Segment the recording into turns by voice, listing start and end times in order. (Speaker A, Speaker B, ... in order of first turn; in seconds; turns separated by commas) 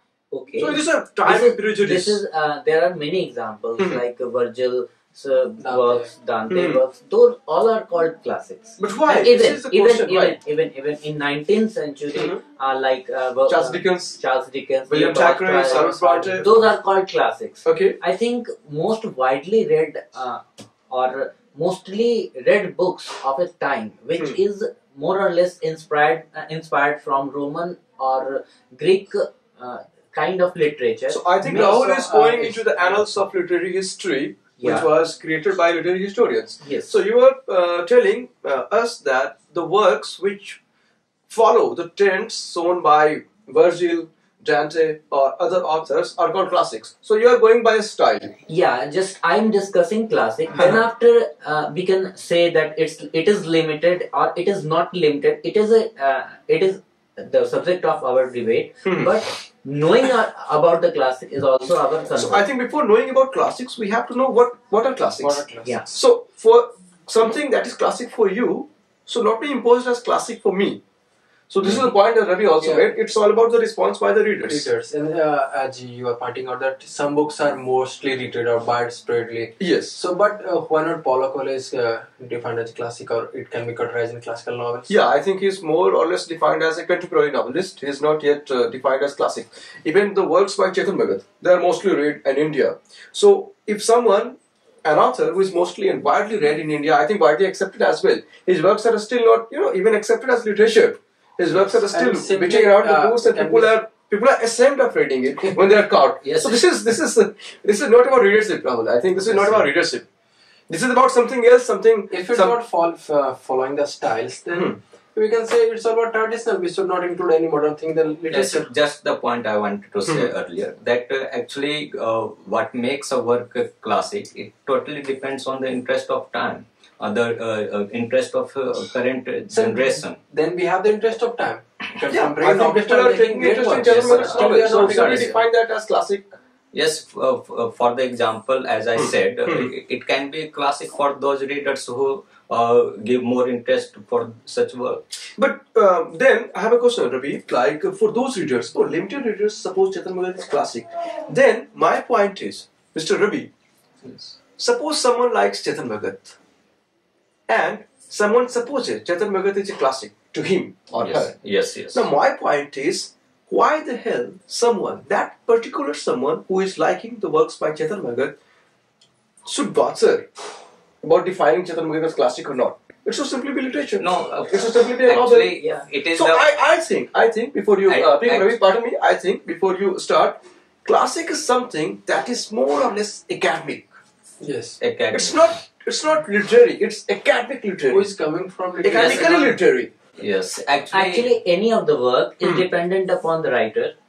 Speaker A: 0.3-31.5, Speaker B: 0.6-2.2, Speaker B: 3.8-4.0, Speaker C: 5.6-6.1, Speaker B: 6.5-6.8, Speaker B: 8.8-10.4, Speaker B: 12.1-12.4, Speaker B: 13.5-14.2, Speaker B: 14.9-16.5, Speaker C: 15.8-16.4, Speaker B: 17.6-18.0, Speaker B: 31.1-40.6, Speaker C: 31.4-33.0, Speaker A: 34.6-34.9, Speaker A: 36.6-37.0, Speaker B: 41.3-48.3, Speaker A: 48.5-62.5, Speaker B: 58.8-59.1, Speaker B: 62.1-70.8, Speaker C: 65.2-65.8, Speaker B: 71.5-74.7, Speaker C: 72.6-73.0, Speaker C: 74.4-85.0, Speaker B: 79.6-80.0, Speaker B: 84.9-110.0, Speaker C: 101.5-103.8, Speaker D: 106.2-106.6, Speaker C: 109.1-109.7, Speaker B: 110.7-112.6, Speaker C: 112.1-118.7, Speaker B: 114.5-114.8, Speaker D: 118.3-130.2, Speaker C: 129.5-135.4, Speaker B: 132.1-136.3, Speaker D: 133.7-135.0, Speaker D: 136.7-145.0, Speaker B: 138.9-139.7, Speaker B: 145.4-153.5, Speaker D: 154.0-154.3, Speaker B: 154.6-156.3, Speaker B: 157.5-161.3, Speaker D: 160.9-162.1, Speaker B: 161.9-168.3, Speaker B: 169.4-170.3, Speaker B: 171.0-175.5, Speaker D: 174.0-176.4, Speaker A: 175.5-175.9, Speaker B: 176.1-183.9, Speaker D: 177.8-178.6, Speaker C: 184.4-184.8, Speaker D: 184.8-185.5, Speaker B: 185.1-188.1, Speaker C: 187.9-189.6, Speaker B: 188.8-189.9, Speaker D: 190.2-191.3, Speaker A: 190.9-193.9, Speaker B: 192.4-192.7